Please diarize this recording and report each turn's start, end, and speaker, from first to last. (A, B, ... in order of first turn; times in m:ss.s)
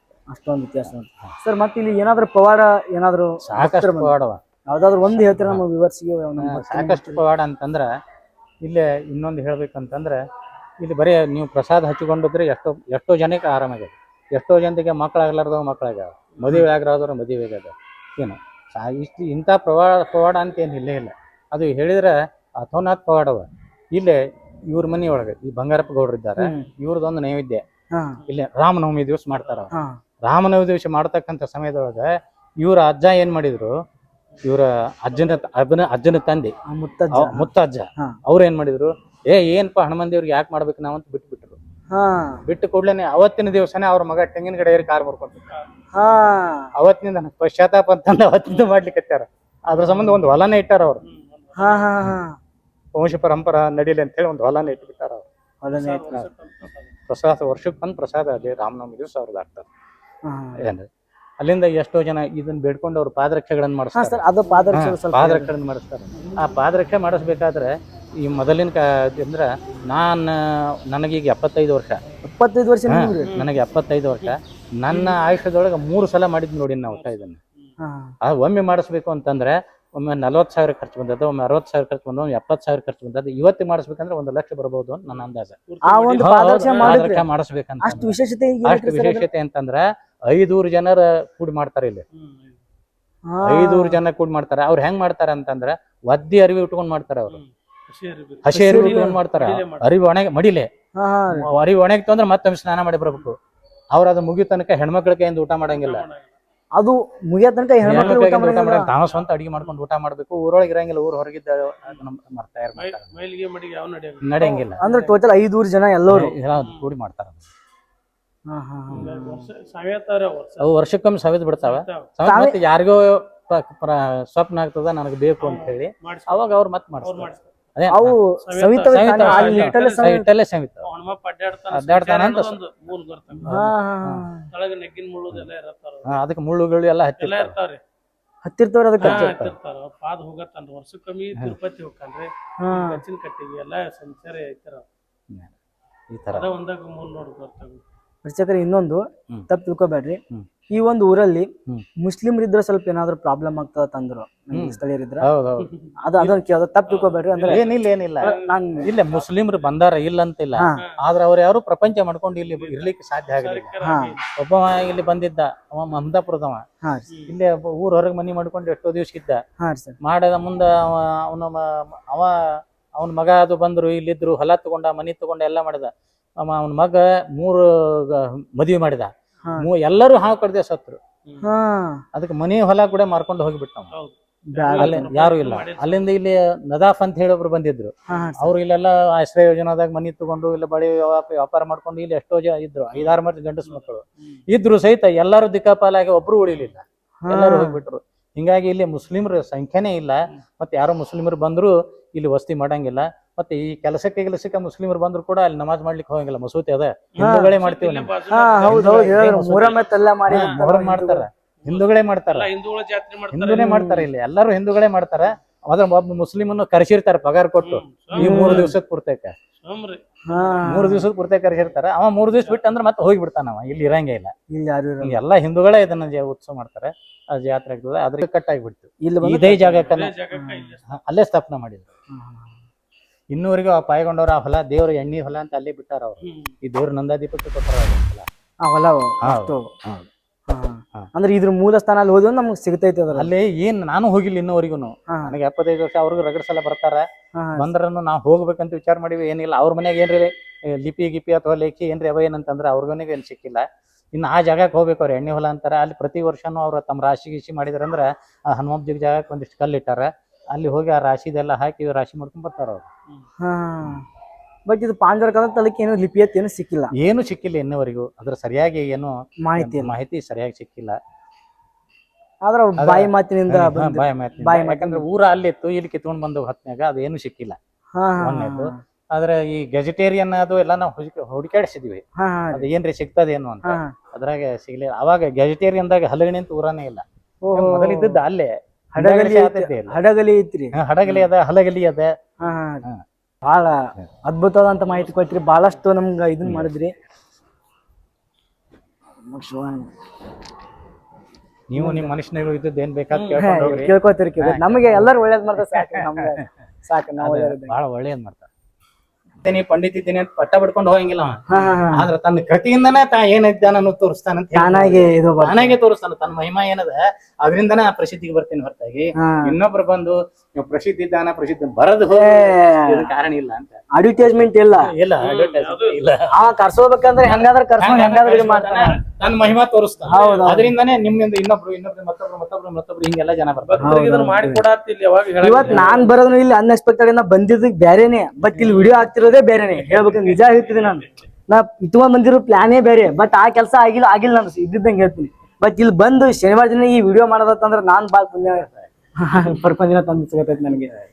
0:00.3-0:04.1 A
0:00.8-0:01.3 B
0:03.4-0:04.4 B
0:04.7-0:07.2 A
0:05.2-0:05.6 B
0:06.4-0:07.9 B
0:08.6-0:10.2 B
0:10.8-0:27.6 B
0:16.4-0:16.6 C
0:27.9-0:28.2 A
0:28.2-0:33.7 B
0:29.7-0:30.0 A
0:34.4-0:36.6 B
0:35.2-0:35.4 C
0:36.7-0:37.4 A
0:37.1-0:41.6 B
0:41.9-0:42.4 A
0:42.4-0:45.6 B
0:45.9-0:46.7 A
0:46.8-0:51.0 B
0:51.0-0:51.9 C
0:51.6-0:52.4 A
0:52.9-0:55.2 B
0:55.6-0:56.2 A
0:55.7-0:56.9 C
0:57.1-0:59.7 B
1:00.3-1:00.5 A
1:00.6-1:00.9 B
1:01.4-1:12.0 B
1:04.2-1:05.5 A
1:12.2-1:13.3 A
1:12.9-1:17.4 B
1:13.2-1:13.6 C
1:14.9-1:15.2 C
1:16.9-1:17.2 C
1:17.8-1:18.1 A
1:18.2-1:25.6 B
1:25.1-1:27.1 C
1:25.8-1:27.2 A
1:26.2-1:32.0 B
1:28.1-1:29.2 A
1:32.1-1:32.6 C
1:33.3-1:33.9 A
1:33.4-1:37.4 B
1:37.3-1:39.9 C
1:38.4-1:40.7 B
1:38.5-1:39.2 A
1:41.0-1:41.5 A
1:41.5-1:43.4 B
1:43.9-1:46.1 B
1:45.7-1:46.4 C
1:46.8-1:48.9 A
1:47.8-1:53.2 B
1:47.9-1:48.3 C
1:52.8-1:55.0 C
1:54.2-1:54.8 B
1:54.8-1:56.3 A
1:56.1-1:57.5 B
1:56.5-1:56.9 C
1:58.5-1:59.5 A
1:58.9-2:00.7 C
2:00.6-2:08.2 B
2:01.6-2:02.1 C
2:05.4-2:06.5 C
2:07.0-2:07.4 C
2:07.9-2:10.2 A
2:08.4-2:10.2 C
2:08.9-2:10.8 B
2:10.8-2:13.7 C
2:11.7-2:12.6 B
2:13.4-2:14.3 B
2:13.5-2:14.5 A
2:14.5-2:16.2 C
2:16.0-2:17.6 B
2:17.2-2:17.8 C
2:18.4-2:19.3 A
2:19.0-2:19.5 B
2:19.0-2:24.8 C
2:22.6-2:23.0 A
2:26.1-2:26.5 B
2:26.3-2:27.8 C
2:28.2-2:35.2 A
2:34.5-2:36.4 B
2:35.6-2:35.9 C
2:36.0-2:37.6 A
2:37.0-2:38.4 C
2:37.6-2:43.8 B
2:38.4-2:38.8 A
2:42.5-2:44.2 C
2:43.8-2:44.1 A
2:44.3-2:46.6 B
2:46.8-2:47.1 A
2:47.1-2:47.4 C
2:47.2-2:49.4 B
2:49.6-2:49.9 A
2:50.0-3:01.0 B
3:01.4-3:02.0 A
3:02.1-3:03.9 B
3:03.9-3:06.0 C
3:04.5-3:05.1 A
3:04.8-3:29.7 B
3:08.1-3:08.5 A
3:12.9-3:13.8 C
3:17.3-3:17.7 A
3:27.1-3:30.6 C
3:27.2-3:27.5 A
3:28.3-3:31.3 A
3:30.3-3:32.5 B
3:31.6-3:33.8 C
3:33.3-3:39.3 B
3:37.6-3:38.6 C
3:38.2-3:38.7 A
3:39.6-3:40.7 C
3:40.3-3:41.0 A
3:40.6-3:44.3 B
3:44.5-3:45.2 A
3:45.0-3:50.2 B
3:49.0-3:49.8 A
3:49.8-3:50.8 C
3:50.3-3:50.7 A
3:50.9-3:51.9 B
3:52.1-3:52.5 A
3:53.3-3:58.3 B
3:56.2-3:56.5 C
3:58.6-3:59.7 A
3:59.2-4:00.1 B
4:00.5-4:03.3 A
4:03.1-4:07.0 B
4:05.1-4:05.4 A
4:07.4-4:07.7 A
4:07.6-4:22.9 B
4:23.4-4:24.0 A
4:24.7-4:26.9 A
4:27.0-4:31.0 B
4:29.4-4:29.9 A
4:32.4-4:34.9 A
4:32.8-4:37.6 B
4:38.0-4:38.7 A
4:38.2-4:50.0 B
4:42.2-4:42.6 A
4:47.5-4:48.1 A
4:49.0-4:50.7 A
4:50.7-4:52.1 B
4:52.4-4:52.8 A
4:53.4-4:56.9 A
4:56.4-4:56.7 B
4:59.3-4:59.9 A
5:01.7-5:06.5 B
5:01.8-5:02.1 A
5:03.1-5:03.4 C
5:03.4-5:07.7 A
5:07.1-5:08.5 B
5:09.4-5:26.5 B
5:11.5-5:12.0 A
5:14.6-5:15.6 A
5:19.2-5:19.5 A
5:22.4-5:23.0 A
5:23.9-5:24.8 A
5:25.2-5:26.0 C
5:26.4-5:29.0 A
5:27.2-5:34.0 B
5:30.0-5:30.6 C
5:30.1-5:30.7 A
5:33.6-5:36.1 C
5:33.8-5:34.6 A
5:35.4-5:48.6 A
5:39.9-5:41.0 C
5:49.2-5:50.9 A